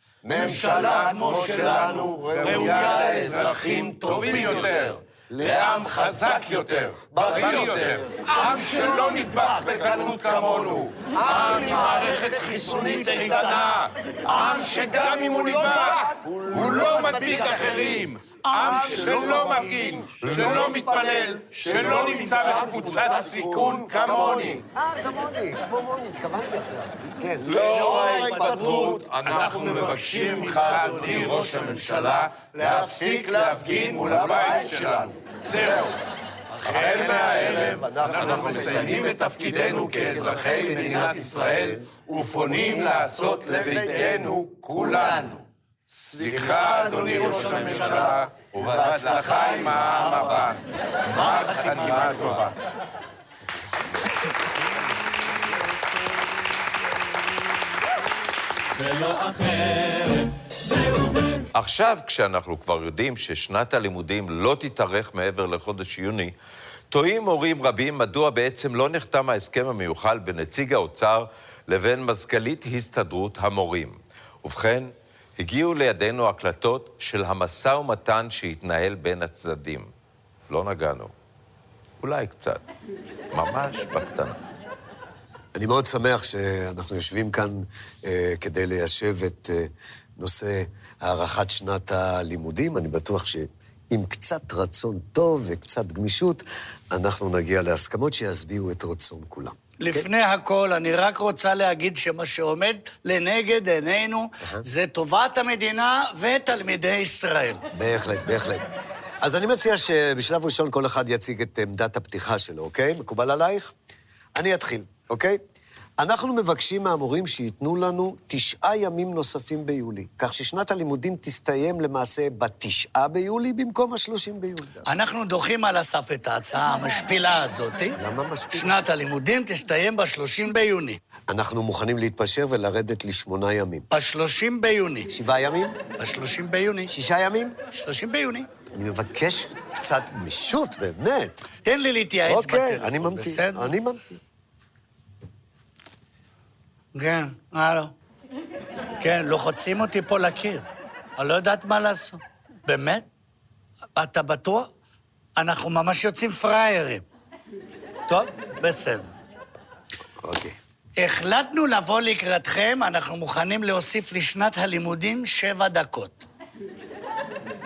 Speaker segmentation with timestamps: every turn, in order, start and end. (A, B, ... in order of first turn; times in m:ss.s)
0:00.2-0:03.3 A
0:00.4-0:04.7 B
0:00.4-0:16.0 C
0:04.3-0:04.7 A
0:05.3-0:05.9 A
0:07.1-0:08.0 A
0:08.3-0:09.8 B
0:11.2-0:12.4 A
0:11.3-0:13.7 B
0:14.3-0:14.6 B
0:15.2-0:18.0 A
0:16.5-0:24.6 C
0:18.4-0:19.8 B
0:18.6-0:29.0 A
0:21.7-0:23.5 B
0:27.7-0:29.0 B
0:27.9-0:29.7 D
0:28.0-0:35.9 C
0:29.7-0:31.4 B
0:32.7-0:34.7 A
0:36.6-0:41.9 A
0:36.7-0:45.4 C
0:38.7-0:39.0 B
0:42.5-0:45.3 A
0:46.2-0:50.6 C
0:46.2-0:50.1 A
0:47.0-0:48.1 B
0:51.1-0:52.5 C
0:51.2-0:51.9 B
1:01.5-1:06.4 D
1:06.9-1:19.9 D
1:20.5-1:21.1 D
1:22.0-1:22.6 D
1:23.3-1:24.4 D
1:25.6-1:40.0 A
1:39.8-1:47.6 B
1:47.7-1:48.7 A
1:49.2-1:53.7 A
1:54.4-1:55.4 A
1:56.0-2:04.8 A
2:04.9-2:08.0 B
2:08.0-2:08.8 A
2:08.5-2:11.0 B
2:11.3-2:13.9 A
2:13.9-2:15.1 B
2:15.1-2:15.8 A
2:16.0-2:16.9 B
2:16.9-2:17.6 A
2:17.7-2:18.5 B
2:18.7-2:21.5 A
2:21.6-2:23.7 B
2:22.2-2:24.2 A
2:27.0-2:27.9 B
2:29.0-2:30.7 B
2:31.2-2:33.1 B
2:34.0-2:34.7 B
2:35.4-2:37.0 B
2:38.1-2:39.1 B
2:40.2-2:40.6 A
2:41.0-2:46.2 B